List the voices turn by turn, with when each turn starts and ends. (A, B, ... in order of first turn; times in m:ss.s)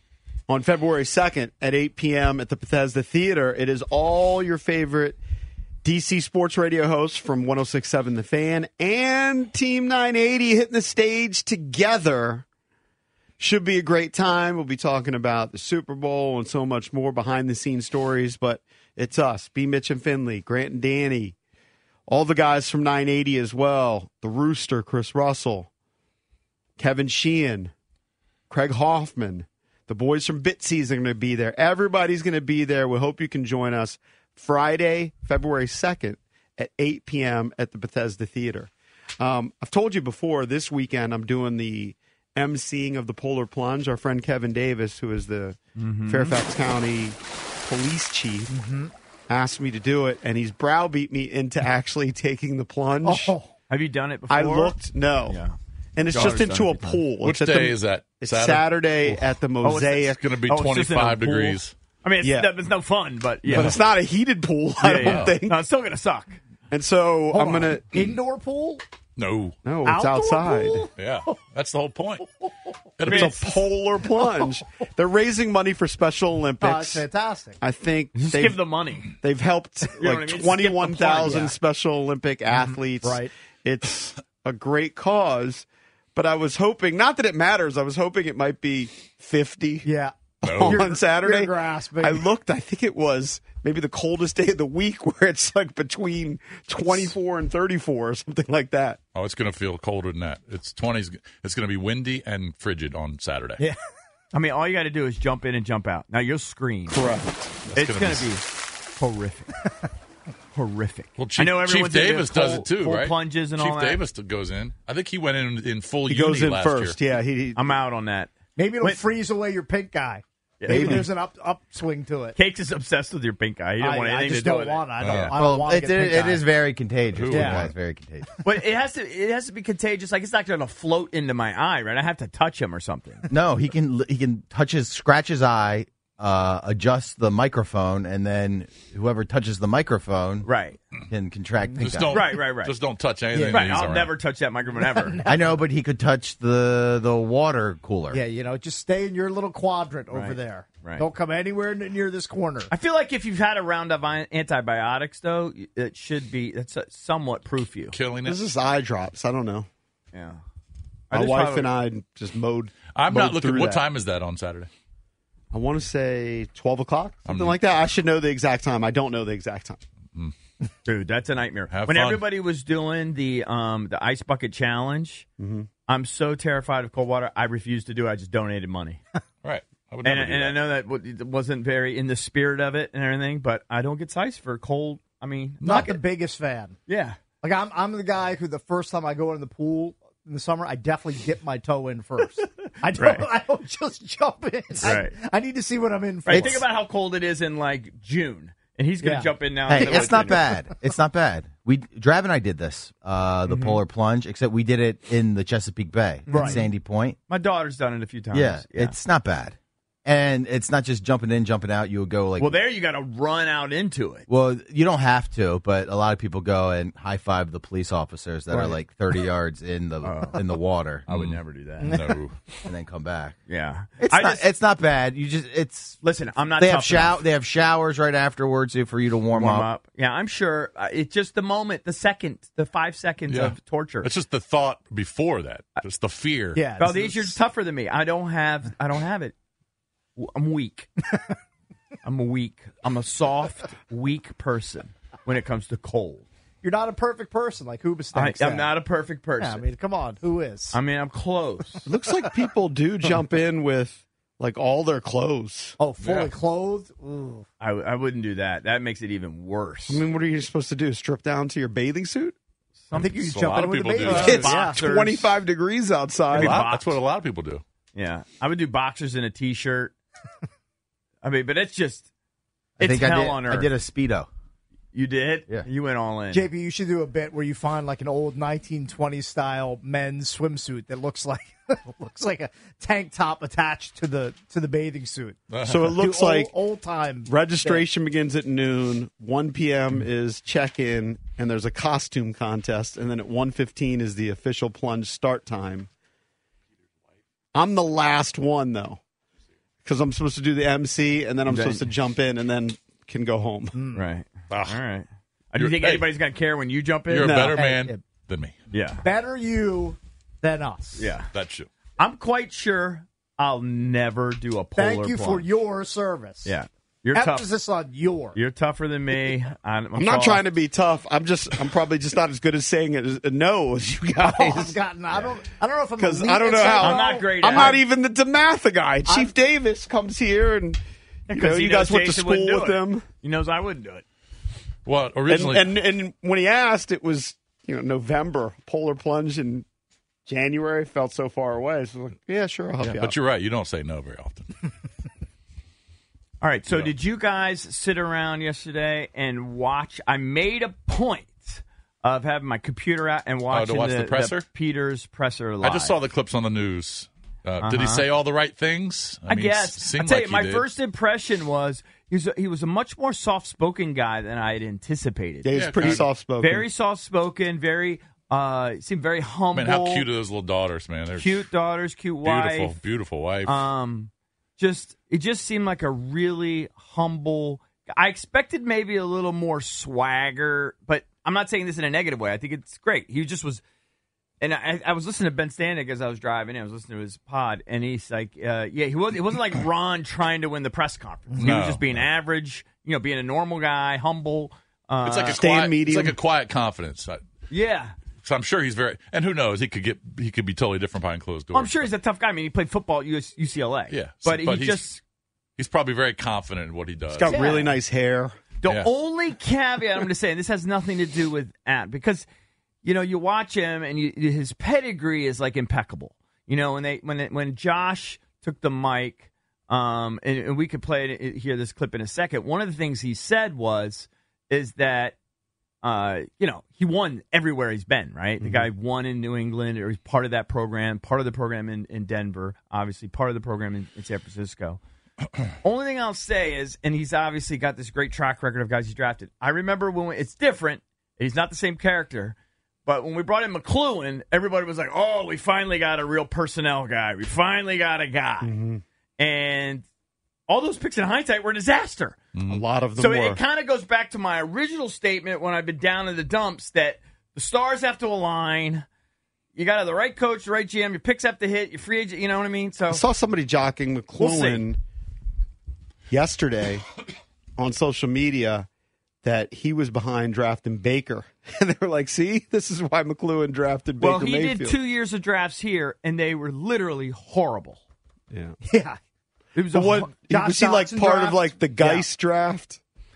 0:00.5-0:05.2 A
0:05.8-0:12.4 A
0:13.4-0:21.4 A
0:22.1-0:25.7 A
0:26.8-0:27.7 A
0:28.5-0:48.5 A
0:45.8-0:46.4 B
0:48.5-0:48.9 C
0:49.3-0:53.4 A
0:53.0-0:53.5 C
0:53.7-0:54.8 B
0:54.3-0:55.4 A
0:55.3-0:57.0 B
0:56.0-1:00.2 A
0:57.2-0:59.2 D
0:59.6-1:03.8 B
1:00.2-1:01.7 D
1:02.2-1:02.5 A
1:03.5-1:05.6 A
1:03.5-1:03.8 D
1:04.8-1:06.4 B
1:05.0-1:05.4 D
1:06.7-1:08.1 A
1:07.3-1:08.8 C
1:09.2-1:09.6 D
1:09.6-1:10.9 A
1:09.8-1:10.9 C
1:11.0-1:12.3 D
1:13.0-1:13.4 D
1:13.1-1:17.1 A
1:13.1-1:13.4 C
1:16.6-1:17.6 C
1:17.6-1:18.6 A
1:18.2-1:19.2 B
1:19.2-1:29.9 A
1:20.0-1:21.5 B
1:22.5-1:23.3 C
1:29.8-1:32.2 C
1:30.4-1:39.0 A
1:30.4-1:30.9 D
1:39.2-1:43.6 D
1:44.3-1:47.0 B
1:46.9-1:47.5 A
1:47.7-1:48.3 D
1:47.7-1:49.6 B
1:50.5-1:54.0 B
1:51.2-1:57.0 D
1:56.1-1:57.8 A
1:57.6-1:59.0 B
1:58.6-2:02.4 C
2:00.6-2:01.1 B
2:00.7-2:01.1 A
2:02.4-2:05.2 B
2:03.8-2:06.5 C
2:05.0-2:05.4 D
2:05.3-2:08.3 E
2:07.1-2:07.7 D
2:07.3-2:07.7 C
2:08.4-2:13.2 B
2:13.3-2:20.5 E
2:20.4-2:20.8 B
2:21.1-2:22.2 E
2:21.7-2:21.9 C
2:21.8-2:24.1 D
2:22.1-2:22.8 B
2:23.3-2:23.8 C
2:23.5-2:25.2 B
2:24.7-2:25.6 C
2:25.3-2:28.2 E
2:28.1-2:32.7 C
2:30.1-2:31.0 B
2:32.7-2:38.0 B
2:37.9-2:38.4 D
2:38.3-2:39.7 A
2:40.1-2:40.4 B
2:41.1-2:41.7 B
2:41.1-2:43.8 A
2:42.9-2:44.7 D
2:45.5-2:49.8 A
2:47.3-2:47.6 D
2:50.8-2:55.3 B
2:51.7-2:52.3 D
2:55.4-2:55.7 A
2:55.9-2:59.0 B
2:59.4-3:00.6 D
3:00.0-3:06.0 B
3:05.6-3:06.8 C
3:06.9-3:07.2 B
3:07.4-3:16.6 C
3:13.0-3:13.2 B
3:14.8-3:15.2 B
3:16.2-3:20.6 B
3:16.3-3:16.6 E
3:19.0-3:20.2 C
3:19.7-3:27.2 E
3:23.5-3:23.8 B
3:26.3-3:26.7 C
3:26.3-3:26.7 B
3:27.3-3:29.0 B
3:28.3-3:32.6 E
3:32.4-3:34.3 B
3:34.3-3:41.0 E
3:40.0-3:40.5 B
3:41.1-3:41.9 B
3:41.1-3:42.4 D
3:41.8-3:42.2 C
3:42.6-3:43.4 E
3:43.5-3:44.5 B
3:44.0-3:46.0 E
3:46.0-3:47.2 B
3:46.6-3:49.7 E
3:49.3-3:54.1 B
3:53.3-3:56.6 D
3:56.6-3:57.4 C
3:56.8-3:59.4 B
4:00.2-4:00.9 B
4:02.0-4:06.2 B
4:06.6-4:08.7 C
4:08.1-4:09.6 B
4:09.4-4:10.8 C
4:10.7-4:11.8 B
4:11.9-4:15.8 A
4:15.8-4:17.5 C
4:16.0-4:16.3 D
4:17.6-4:20.0 B
4:19.9-4:22.4 A
4:22.8-4:23.2 B
4:22.9-4:24.6 D
4:22.9-4:24.8 C
4:24.0-4:25.3 B
4:24.1-4:26.6 A
4:26.3-4:27.0 B
4:26.3-4:27.6 D
4:27.9-4:29.9 B
4:31.2-4:32.1 B
4:32.8-4:34.3 E
4:32.8-4:33.7 B
4:34.9-4:36.5 B
4:36.3-4:47.8 C
4:45.5-4:46.0 D
4:45.6-4:46.5 A
4:47.3-4:55.9 A
4:57.5-4:59.0 A
4:59.8-5:03.8 A
5:01.5-5:01.9 B
5:03.7-5:04.0 C
5:04.0-5:07.6 B
5:04.5-5:04.8 D
5:05.6-5:06.1 D
5:07.1-5:08.6 D
5:07.2-5:07.6 A
5:07.5-5:08.0 C
5:08.7-5:09.1 B
5:09.0-5:11.1 C
5:11.0-5:11.3 B
5:11.3-5:11.7 D
5:12.0-5:15.5 B
5:14.8-5:16.5 C
5:16.4-5:17.5 B
5:17.1-5:18.4 C
5:18.4-5:20.4 B
5:20.0-5:25.3 A
5:24.2-5:27.8 C
5:26.0-5:33.0 A
5:26.8-5:27.8 B
5:29.1-5:29.3 C
5:31.3-5:34.0 B
5:34.9-5:35.7 D
5:35.3-5:39.7 A
5:40.3-5:43.1 A
5:42.8-5:44.5 D
5:46.4-5:56.0 B
5:53.5-5:54.4 D
5:55.6-6:00.7 D
5:57.6-5:58.1 B
5:59.3-6:10.1 B
6:05.4-6:06.7 A
6:05.5-6:06.1 D
6:09.6-6:11.4 D
6:11.2-6:12.8 B
6:12.2-6:13.6 D
6:13.4-6:23.6 B
6:24.4-6:35.4 B
6:31.4-6:32.1 D
6:35.0-6:37.2 D
6:35.4-6:36.2 A
6:37.5-6:38.0 B
6:38.2-6:41.9 D
6:41.5-6:45.0 B
6:43.9-6:44.9 D
6:45.6-6:47.4 D
6:47.2-6:48.4 A
6:47.2-6:47.7 B
6:47.3-6:47.6 C
6:48.6-6:52.3 B
6:52.8-7:05.2 B
7:05.8-7:14.8 B
7:08.4-7:08.7 A
7:15.6-7:28.5 B
7:28.4-7:28.8 A
7:29.2-7:29.8 B
7:30.5-7:32.2 B
7:32.4-7:32.6 D
7:32.5-7:33.4 A
7:33.0-7:38.9 B
7:39.6-7:43.0 B
7:42.9-7:44.8 A
7:44.2-7:44.6 B
7:46.1-7:46.8 A
7:47.6-7:48.7 A
7:49.2-7:54.8 A
7:54.0-7:57.8 B
7:58.3-7:58.6 A
7:58.6-7:59.0 C
7:59.6-8:00.1 B
7:59.7-8:02.8 A
8:00.2-8:01.5 C